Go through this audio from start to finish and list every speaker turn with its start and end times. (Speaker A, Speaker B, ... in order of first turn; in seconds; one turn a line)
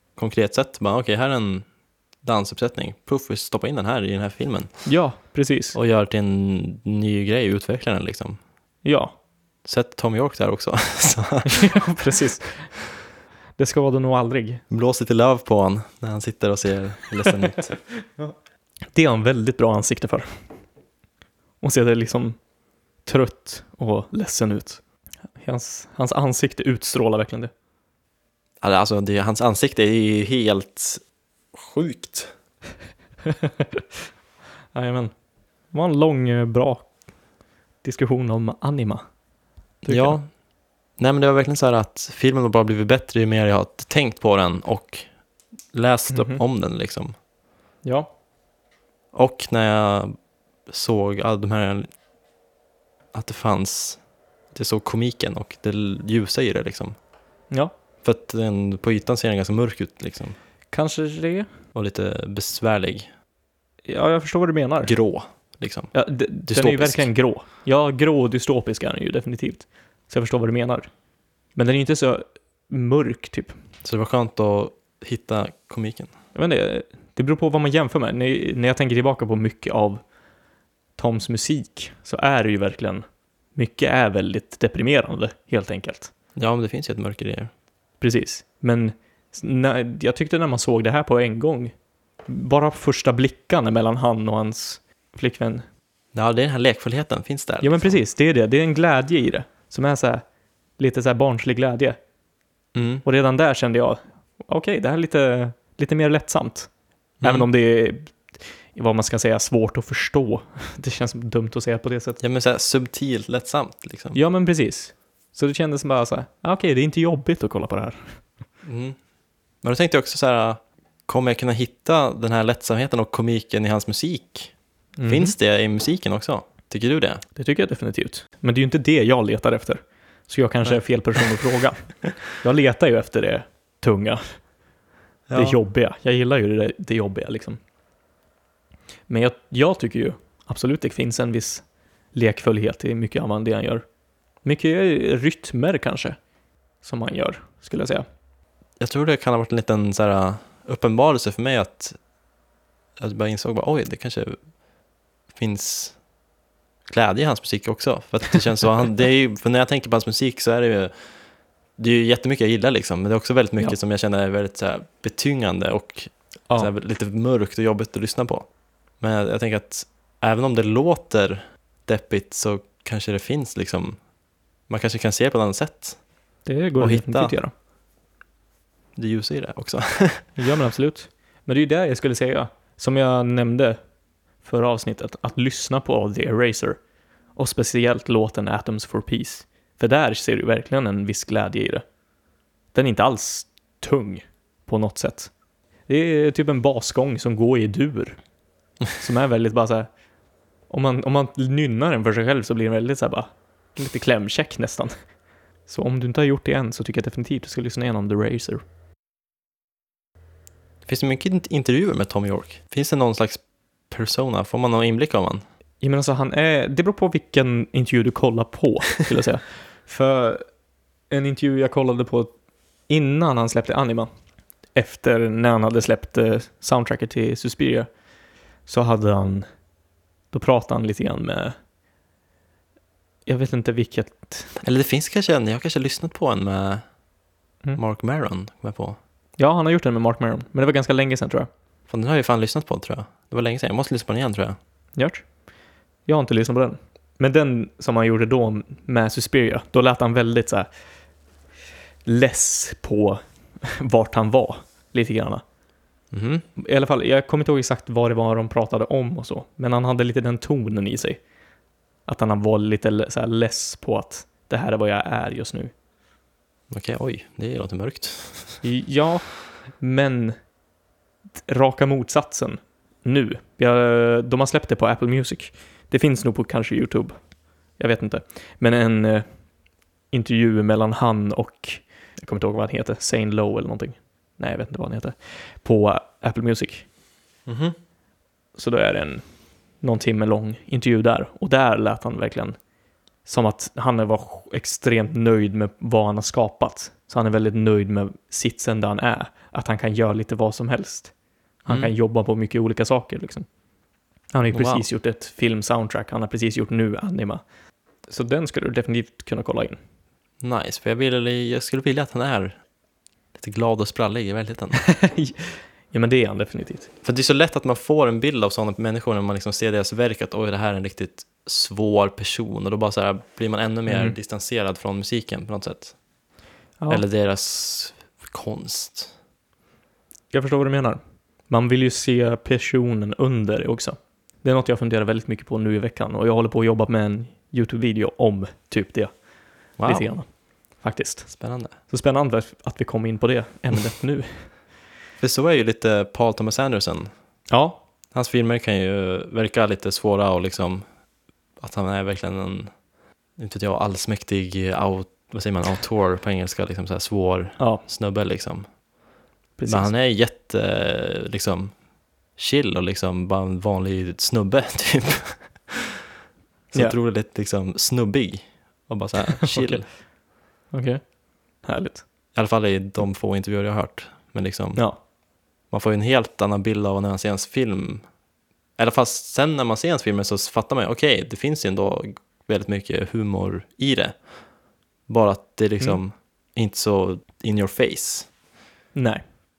Speaker A: 0.1-1.6
Speaker A: 2.2-4.7
Speaker B: 4.8-5.8
Speaker A: 5.7-8.4
Speaker B: 8.8-9.1
Speaker A: 9.6-11.8
Speaker B: 11.4-12.7
Speaker B: 13.6-14.6
Speaker A: 14.7-17.7
Speaker B: 18.9-20.3
Speaker B: 21.6-22.4
Speaker B: 23.1-24.8
Speaker B: 25.4-27.5
Speaker A: 28.6-31.0
Speaker A: 31.5-32.3
Speaker B: 33.3-33.8
Speaker B: 34.7-35.1
Speaker B: 35.7-36.9
Speaker B: 37.8-39.0
Speaker B: 39.8-40.2
Speaker A: 39.9-40.3
Speaker A: 41.0-45.1
Speaker A: 45.7-47.1
Speaker B: 46.1-46.4
Speaker B: 47.8-48.1
Speaker A: 49.1-50.1
Speaker A: 50.7-51.9
Speaker A: 53.1-54.0
Speaker A: 54.5-57.0
Speaker A: 58.0-60.4
Speaker B: 60.7-61.5
Speaker A: 61.7-63.1
Speaker B: 63.9-64.9
Speaker A: 64.8-65.9
Speaker B: 65.9-70.9
Speaker A: 66.5-67.1
Speaker B: 71.5-73.5
Speaker A: 73.8-76.1
Speaker B: 76.3-80.0
Speaker B: 81.0-83.0
Speaker B: 83.5-86.1
Speaker A: 86.4-87.5
Speaker B: 88.0-91.7
Speaker B: 92.2-95.6
Speaker A: 96.1-98.0
Speaker B: 97.6-100.2
Speaker B: 100.8-102.0
Speaker A: 102.7-103.0
Speaker B: 103.0-106.7
Speaker A: 107.2-107.5
Speaker B: 107.2-112.2
Speaker A: 112.2-114.2
Speaker B: 114.1-118.1
Speaker A: 118.6-119.0
Speaker A: 119.6-124.5
Speaker B: 125.0-125.3
Speaker A: 125.0-127.2
Speaker B: 127.4-134.4
Speaker A: 135.3-135.6
Speaker B: 135.3-137.6
Speaker B: 139.1-143.8
Speaker B: 144.4-146.2
Speaker B: 146.8-148.1
Speaker A: 148.8-152.0
Speaker A: 153.0-154.4
Speaker A: 155.3-156.0
Speaker A: 156.9-160.9
Speaker A: 161.8-168.5
Speaker A: 169.0-174.0
Speaker A: 174.7-176.0
Speaker B: 176.4-177.5
Speaker A: 176.8-177.3
Speaker A: 178.9-180.3
Speaker B: 180.4-183.8
Speaker B: 184.4-186.8
Speaker B: 187.4-191.8
Speaker B: 192.7-195.3
Speaker B: 195.9-198.2
Speaker B: 199.0-199.9
Speaker B: 200.7-204.9
Speaker B: 205.7-208.6
Speaker A: 210.9-215.4
Speaker B: 215.8-220.4
Speaker B: 221.1-222.3
Speaker B: 222.9-224.1
Speaker B: 224.7-227.9
Speaker B: 228.7-229.4
Speaker B: 230.3-231.6
Speaker B: 233.2-234.6
Speaker A: 234.6-236.8
Speaker A: 237.7-239.0
Speaker B: 239.4-241.5
Speaker A: 241.9-244.6
Speaker B: 244.9-245.2
Speaker B: 246.1-250.7
Speaker B: 252.1-255.4
Speaker A: 256.1-256.4
Speaker B: 256.6-261.2
Speaker B: 262.1-265.7
Speaker A: 266.7-268.6
Speaker B: 268.6-270.4
Speaker B: 271.4-277.1
Speaker B: 277.8-279.2
Speaker B: 280.1-286.9
Speaker A: 287.4-287.8
Speaker B: 288.6-289.2
Speaker B: 289.8-292.6
Speaker B: 293.2-301.1
Speaker B: 301.6-303.4
Speaker B: 304.3-307.4
Speaker A: 304.5-304.9
Speaker B: 308.1-309.8
Speaker A: 310.4-312.6
Speaker A: 313.3-314.8
Speaker B: 314.8-316.9
Speaker A: 317.0-325.9
Speaker B: 323.9-324.1
Speaker A: 326.9-329.1
Speaker B: 330.3-339.1
Speaker A: 339.8-340.1
Speaker B: 339.8-340.2
Speaker B: 340.8-344.5
Speaker A: 341.3-341.8
Speaker A: 345.2-347.1
Speaker B: 347.5-347.8
Speaker A: 348.1-350.8
Speaker A: 351.6-352.7
Speaker A: 353.4-358.7
Speaker B: 359.6-359.9
Speaker A: 359.7-361.8
Speaker A: 362.4-365.8
Speaker A: 366.7-369.9
Speaker B: 369.5-369.8
Speaker B: 370.7-371.0
Speaker B: 371.6-372.1
Speaker A: 372.3-374.8
Speaker A: 375.7-378.1
Speaker A: 378.8-384.2
Speaker A: 385.1-388.3
Speaker B: 388.9-389.2